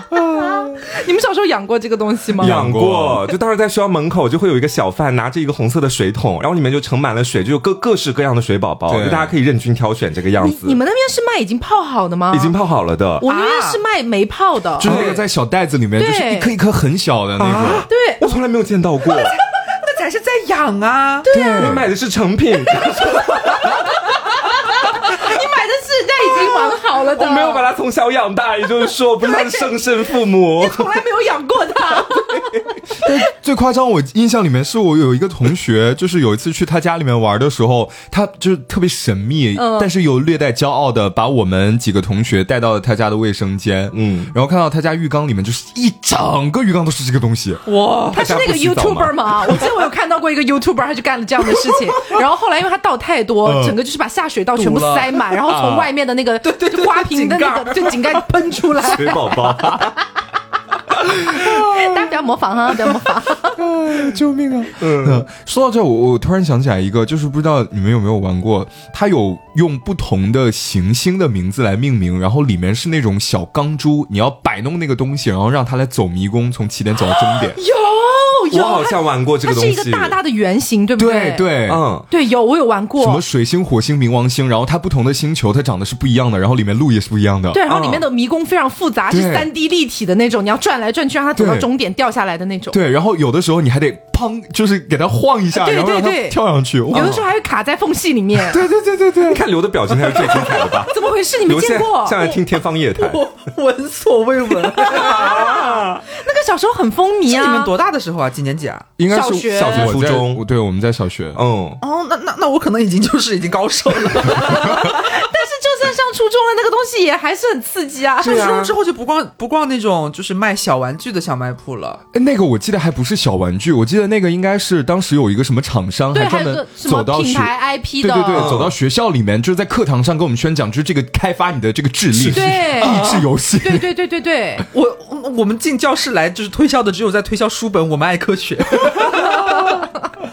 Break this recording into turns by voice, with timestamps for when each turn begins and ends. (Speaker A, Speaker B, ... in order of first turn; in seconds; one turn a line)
Speaker A: 0.3-2.6
Speaker B: 2.4-3.2
Speaker C: 2.4-10.8
Speaker B: 8.9-9.3
Speaker A: 10.4-12.5
Speaker C: 12.3-13.2
Speaker A: 13.2-14.9
Speaker D: 13.2-13.8
Speaker B: 14.8-17.9
Speaker C: 14.8-15.2
Speaker D: 14.9-15.2
Speaker A: 16.0-16.5
Speaker C: 17.4-19.3
Speaker A: 17.9-18.3
Speaker D: 19.1-21.3
Speaker A: 21.2-21.8
Speaker B: 21.3-21.9
Speaker C: 21.6-23.9
Speaker A: 23.6-27.6
Speaker C: 26.5-31.0
Speaker A: 29.2-29.7
Speaker A: 30.6-33.0
Speaker B: 33.0-47.6
Speaker A: 39.5-39.9
Speaker C: 43.9-44.3
Speaker D: 47.6-48.2
Speaker A: 48.1-59.9
Speaker C: 48.1-49.6
Speaker B: 53.4-53.8
Speaker D: 54.5-55.1
Speaker B: 55.3-55.9
Speaker D: 56.4-58.3
Speaker C: 58.8-60.0
Speaker B: 61.3-61.9
Speaker A: 61.4-63.6
Speaker B: 63.5-77.6
Speaker C: 64.8-65.3
Speaker A: 77.3-81.5
Speaker C: 78.5-80.2
Speaker B: 81.0-81.8
Speaker C: 81.7-82.0
Speaker A: 82.1-83.2
Speaker B: 83.0-87.6
Speaker A: 87.5-92.8
Speaker C: 87.7-88.0
Speaker B: 89.1-89.5
Speaker B: 91.3-91.7
Speaker B: 92.7-97.2
Speaker A: 95.5-98.6
Speaker C: 96.9-97.2
Speaker B: 98.3-99.5
Speaker C: 99.2-103.2
Speaker D: 100.1-100.6
Speaker A: 100.9-102.3
Speaker D: 103.0-105.5
Speaker A: 104.7-107.7
Speaker C: 104.9-106.0
Speaker D: 107.2-108.9
Speaker B: 109.0-111.4
Speaker A: 109.1-109.9
Speaker C: 109.5-110.4
Speaker C: 111.3-111.8
Speaker D: 111.8-115.0
Speaker A: 114.3-118.6
Speaker D: 118.2-122.0
Speaker C: 118.2-118.7
Speaker B: 122.1-133.9
Speaker A: 126.1-128.5
Speaker C: 128.3-128.7
Speaker A: 132.3-134.7
Speaker D: 132.8-133.2
Speaker D: 134.7-139.8
Speaker A: 139.2-139.9